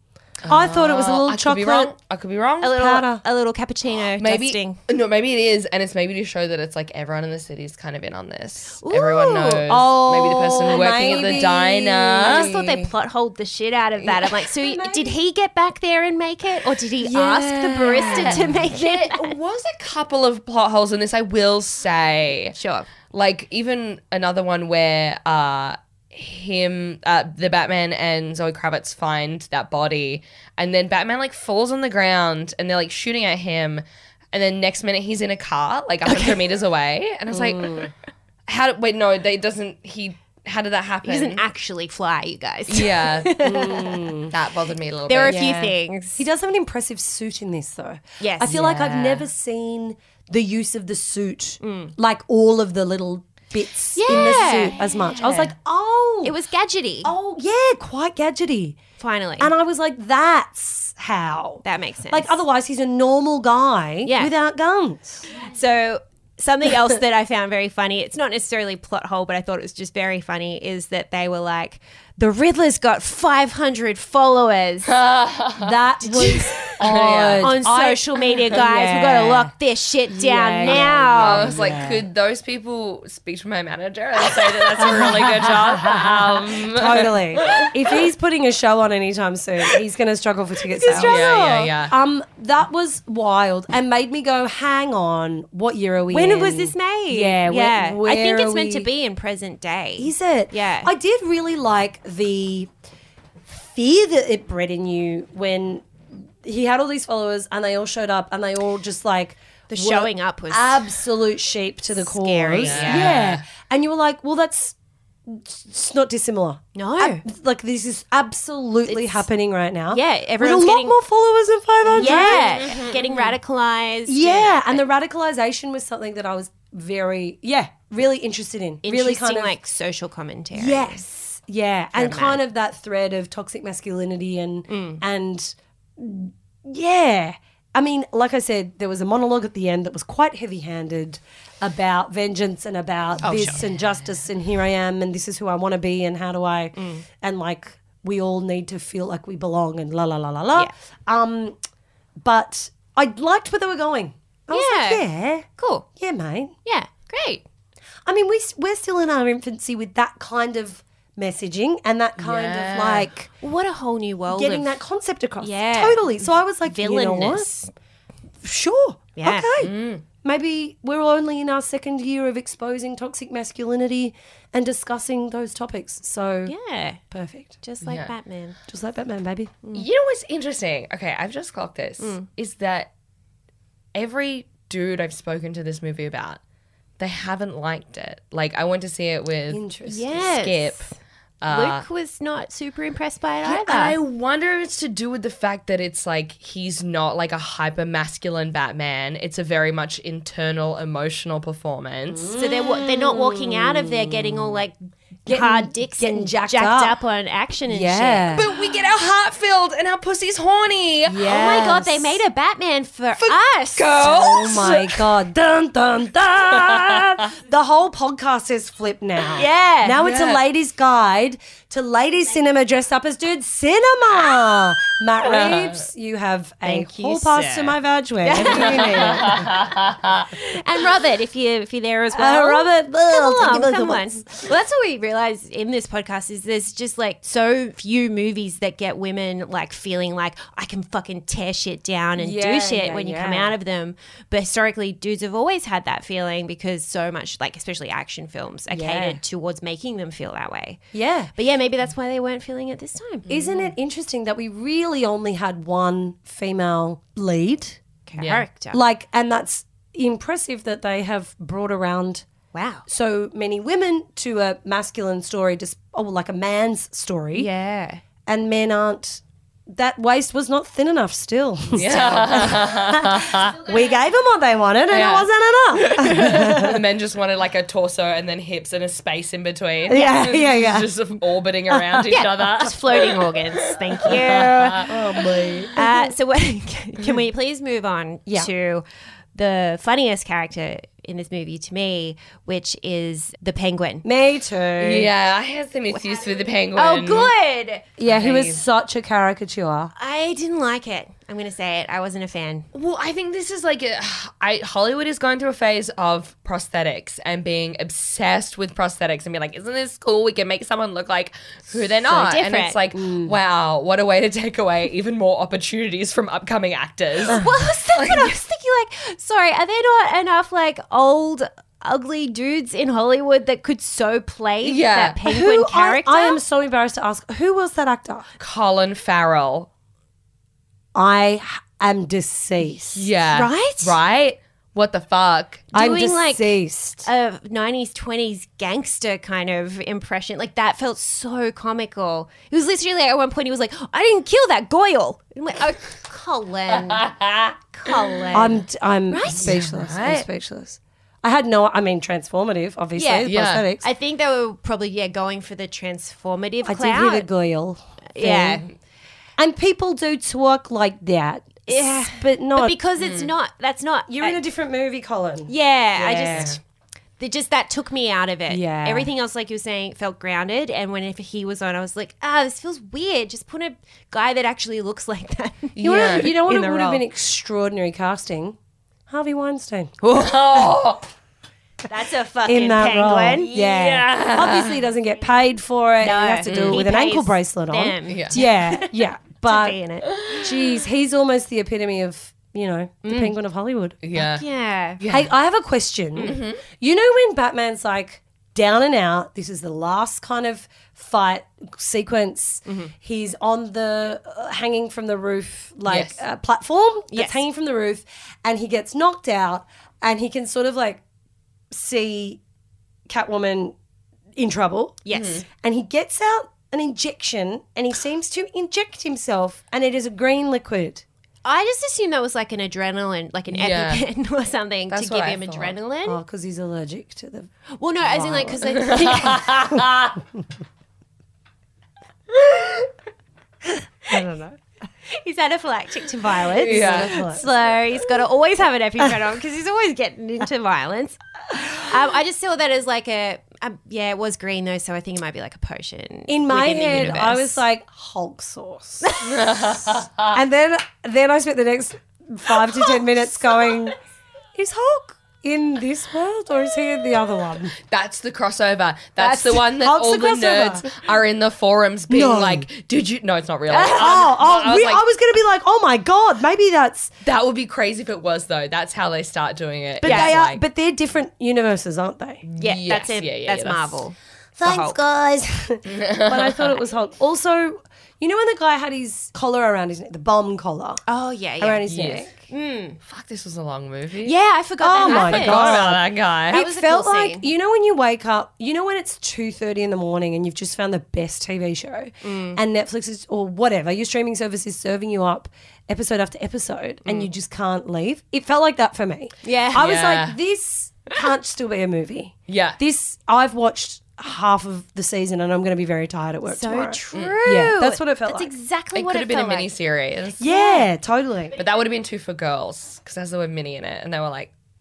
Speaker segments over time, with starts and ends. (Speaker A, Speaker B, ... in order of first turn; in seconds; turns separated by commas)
Speaker A: 0.4-2.8, Speaker B: 0.4-1.9, Speaker C: 2.6-4.8, Speaker B: 2.7-3.2, Speaker A: 4.2-12.5, Speaker C: 8.8-9.7, Speaker B: 9.7-12.9, Speaker C: 10.7-11.4, Speaker C: 12.2-19.3, Speaker B: 14.5-15.2, Speaker B: 17.0-18.6, Speaker A: 17.9-22.6, Speaker C: 22.5-22.9, Speaker A: 23.1-37.9, Speaker C: 36.1-36.3, Speaker B: 37.3-37.9, Speaker A: 38.5-41.4, Speaker C: 41.0-44.1, Speaker A: 42.7-43.4, Speaker B: 43.4-44.3, Speaker A: 44.3-45.4, Speaker C: 45.1-46.2, Speaker B: 45.3-56.3, Speaker C: 48.2-48.9, Speaker A: 48.6-49.1, Speaker C: 51.6-51.9, Speaker C: 53.9-55.5, Speaker C: 56.2-57.1, Speaker B: 57.0-58.8, Speaker C: 59.0-59.5, Speaker B: 59.4-65.2, Speaker C: 61.6-62.4, Speaker C: 64.0-64.3, Speaker C: 65.3-75.0, Speaker A: 74.9-75.8, Speaker B: 75.6-79.5, Speaker C: 76.0-76.8, Speaker A: 76.7-77.5, Speaker C: 77.4-81.5, Speaker B: 80.1-82.0, Speaker A: 80.6-88.0, Speaker B: 84.7-98.9, Speaker C: 90.8-91.6, Speaker A: 90.9-91.9, Speaker C: 96.1-100.9, Speaker B: 100.0-102.7, Speaker B: 103.5-105.9, Speaker B: 106.4-122.7, Speaker C: 109.7-110.9, Speaker C: 112.0-113.1, Speaker A: 112.6-113.4, Speaker C: 116.7-117.2, Speaker C: 118.8-119.2, Speaker C: 119.9-121.0, Speaker C: 121.9-124.8, Speaker A: 122.4-123.3, Speaker B: 124.1-129.5, Speaker C: 128.8-131.0, Speaker B: 130.5-151.6, Speaker C: 131.9-132.4, Speaker C: 134.7-135.0, Speaker C: 143.2-143.6, Speaker C: 146.8-147.0, Speaker B: 152.2-156.5, Speaker C: 154.5-155.1, Speaker C: 155.6-155.8, Speaker C: 156.6-157.4, Speaker B: 158.1-163.3, Speaker A: 162.2-163.1, Speaker C: 163.4-164.7, Speaker B: 164.3-167.5, Speaker C: 165.4-167.7, Speaker B: 168.4-176.5, Speaker C: 169.2-169.6, Speaker A: 169.6-170.0, Speaker C: 176.4-177.0, Speaker B: 177.1-177.6, Speaker C: 177.6-178.6, Speaker A: 177.8-178.1, Speaker B: 178.7-179.5, Speaker A: 179.7-182.9, Speaker C: 182.0-182.2, Speaker A: 183.9-186.4, Speaker A: 187.0-190.9, Speaker B: 189.5-190.3, Speaker C: 189.9-190.9, Speaker A: 191.4-191.8, Speaker C: 191.5-194.0, Speaker A: 193.4-202.3, Speaker B: 202.1-204.5, Speaker C: 202.3-208.3, Speaker B: 205.2-206.9, Speaker B: 207.7-208.5, Speaker A: 208.3-211.3, Speaker B: 211.1-212.2, Speaker C: 211.2-214.3, Speaker A: 213.2-215.1, Speaker B: 214.0-229.5, Speaker A: 216.4-217.2, Speaker C: 219.3-220.0, Speaker A: 220.0-220.4, Speaker A: 225.3-225.8, Speaker C: 226.6-229.5, Speaker A: 228.4-230.3, Speaker C: 230.3-250.8, Speaker B: 232.1-234.2, Speaker B: 242.2-243.5, Speaker B: 248.7-249.2, Speaker B: 250.9-251.3, Speaker C: 251.3-253.3, Speaker B: 253.3-257.8, Speaker C: 258.1-258.8, Speaker A: 258.2-258.4, Speaker B: 258.7-262.2, Speaker C: 262.5-262.8, Speaker B: 262.9-267.5, Speaker C: 267.3-268.0, Speaker B: 268.2-276.8, Speaker A: 271.7-273.6, Speaker A: 274.9-285.2, Speaker B: 279.9-280.9, Speaker B: 281.7-282.1, Speaker C: 282.1-284.9, Speaker B: 284.9-286.1, Speaker C: 285.7-294.0, Speaker B: 294.0-295.1, Speaker A: 294.8-297.3, Speaker C: 295.9-297.9, Speaker B: 298.0-299.9, Speaker A: 298.0-298.6, Speaker C: 299.9-302.7, Speaker A: 302.7-318.3, Speaker C: 312.0-312.8, Speaker B: 312.9-313.3, Speaker C: 317.3-326.4, Speaker A: 324.6-325.2, Speaker B: 325.2-328.3, Speaker A: 328.4-329.7, Speaker B: 330.9-333.1, Speaker A: 332.9-335.7, Speaker C: 333.3-334.0, Speaker B: 335.7-337.1, Speaker C: 335.7-347.1, Speaker A: 346.7-348.0, Speaker C: 347.7-349.6, Speaker B: 348.3-353.9, Speaker A: 349.4-350.3, Speaker C: 352.9-357.3, Speaker A: 353.2-353.6, Speaker B: 356.6-358.6, Speaker C: 358.1-358.7, Speaker B: 359.4-362.8, Speaker C: 361.7-364.4, Speaker A: 363.0-363.3, Speaker B: 364.1-366.5, Speaker C: 365.5-366.6, Speaker A: 366.3-366.6, Speaker C: 367.2-377.0, Speaker B: 368.5-369.1, Speaker A: 375.8-376.3, Speaker B: 375.8-378.6, Speaker B: 379.1-379.9, Speaker A: 380.0-381.1, Speaker C: 381.9-383.6, Speaker B: 382.4-389.8, Speaker A: 383.5-384.8, Speaker C: 386.0-390.1, Speaker A: 386.5-386.8, Speaker A: 388.1-388.4, Speaker A: 390.1-390.5, Speaker B: 390.3-394.0, Speaker C: 393.0-393.3, Speaker A: 394.0-394.4, Speaker C: 394.1-395.0, Speaker A: 395.0-395.3, Speaker B: 395.1-411.0, Speaker A: 396.2-396.6, Speaker C: 402.6-402.9, Speaker A: 405.9-406.2, Speaker C: 407.1-407.4, Speaker B: 411.7-412.4, Speaker B: 413.1-413.8, Speaker B: 414.4-421.0, Speaker C: 415.0-415.4, Speaker A: 415.1-415.4, Speaker C: 421.4-426.2, Speaker A: 423.5-424.1, Speaker A: 424.9-425.8, Speaker B: 426.1-427.5, Speaker C: 427.7-429.6, Speaker B: 428.0-429.8, Speaker A: 428.7-430.2, Speaker B: 434.1-434.6, Speaker C: 435.1-447.6, Speaker B: 436.5-437.4, Speaker A: 436.5-437.2, Speaker B: 446.3-449.3, Speaker C: 449.0-449.3, Speaker A: 449.2-450.3, Speaker B: 450.3-453.9, Speaker B: 454.5-457.7, Speaker A: 457.9-465.0, Speaker B: 459.2-460.9, Speaker B: 462.1-462.7, Speaker B: 463.7-467.1, Speaker A: 467.2-470.6, Speaker B: 470.0-472.4, Speaker C: 470.0-470.3, Speaker A: 472.4-474.0, Speaker C: 472.6-475.0, Speaker B: 474.6-481.0, Speaker A: 475.9-476.8, Speaker C: 481.1-481.9, Speaker B: 481.6-482.3, Speaker A: 481.9-482.3, Speaker C: 482.5-483.0, Speaker A: 483.0-484.3, Speaker C: 484.2-485.8, Speaker B: 484.8-508.5, Speaker A: 485.0-486.6, Speaker C: 486.5-487.5, Speaker C: 492.2-492.6, Speaker C: 499.4-499.9, Speaker A: 499.8-500.4, Speaker A: 502.5-502.8, Speaker C: 506.5-509.7, Speaker A: 508.9-510.5, Speaker B: 510.4-511.5, Speaker C: 510.5-510.8, Speaker A: 511.5-514.5